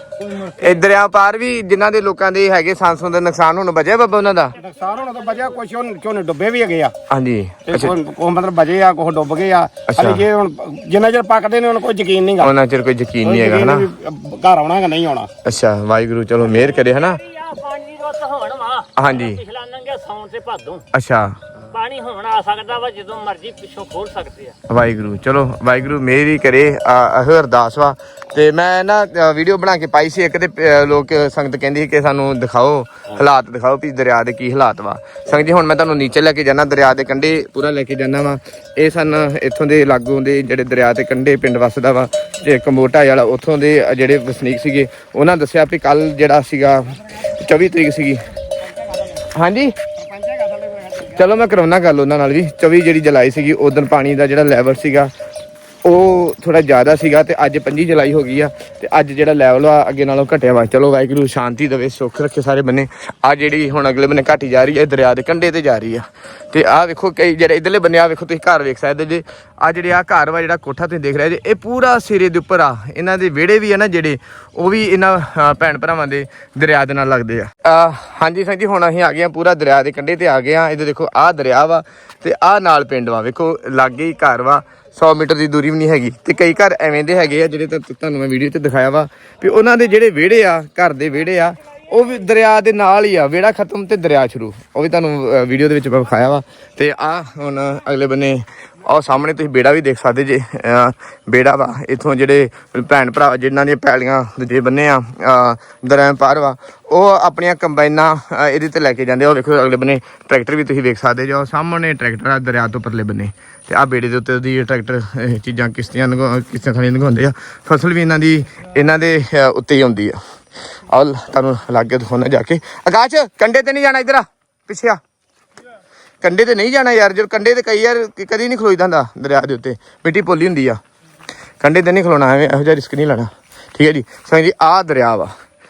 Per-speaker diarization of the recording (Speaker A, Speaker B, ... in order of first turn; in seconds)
Speaker A: 0.2-0.8, 16.5-20.8, 21.6-24.5
Speaker B: 0.5-4.5, 7.1-8.0, 9.9-10.2, 12.4-13.9, 15.4-17.2, 18.9-19.4, 20.9-21.4, 24.7-48.3, 49.3-49.8, 51.1-55.1, 55.8-120.2, 120.8-125.0, 126.2-130.8, 131.6-135.3
Speaker C: 4.6-6.9, 7.7-12.5, 13.2-15.3, 50.0-51.4